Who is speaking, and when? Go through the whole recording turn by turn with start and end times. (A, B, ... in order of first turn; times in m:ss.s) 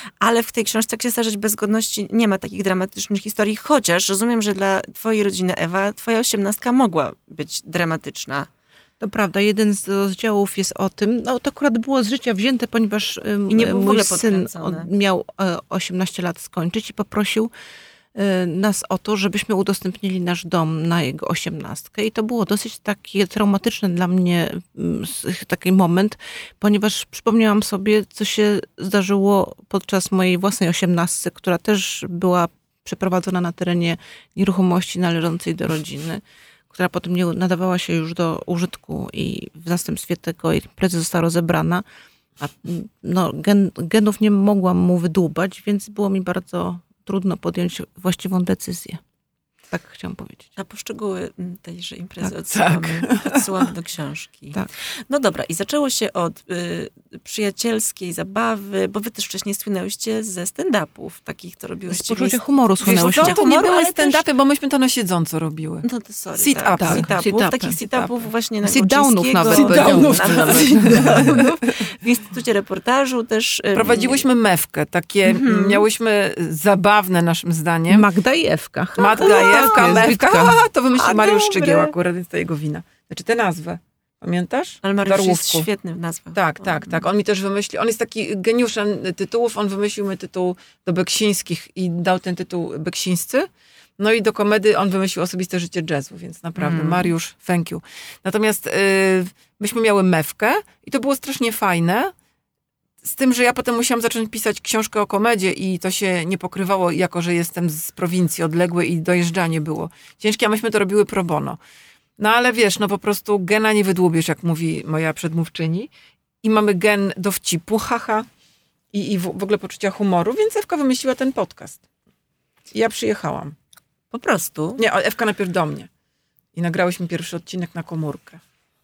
0:00.2-0:08.5 A
0:09.0-0:17.5 B
0:13.5-0:14.9 A
0:18.1-0:41.8 B
0:42.4-0:49.0 B
0:49.7-0:50.4 B
0:50.6-1:02.4 A
0:52.5-0:53.6 C
1:01.9-1:03.4 B
1:02.8-1:05.8 C
1:02.9-1:04.2 A
1:05.8-1:14.2 A
1:06.4-1:07.1 C
1:06.8-1:07.8 B
1:07.9-1:08.1 C
1:08.6-1:11.4 B
1:09.4-1:11.6 C
1:13.7-1:18.1 C
1:15.2-1:15.8 A
1:17.9-1:20.6 B
1:19.0-1:25.7 C
1:19.1-1:20.1 A
1:20.9-1:21.9 A
1:24.8-1:27.0 A
1:26.3-1:42.1 C
1:36.6-1:37.1 A
1:43.0-1:51.6 C
1:52.2-1:55.9 C
1:56.4-1:58.3 C
1:58.9-2:01.8 C
2:02.7-2:03.5 C
2:04.1-2:04.8 A
2:04.8-2:05.9 C
2:06.5-2:08.4 C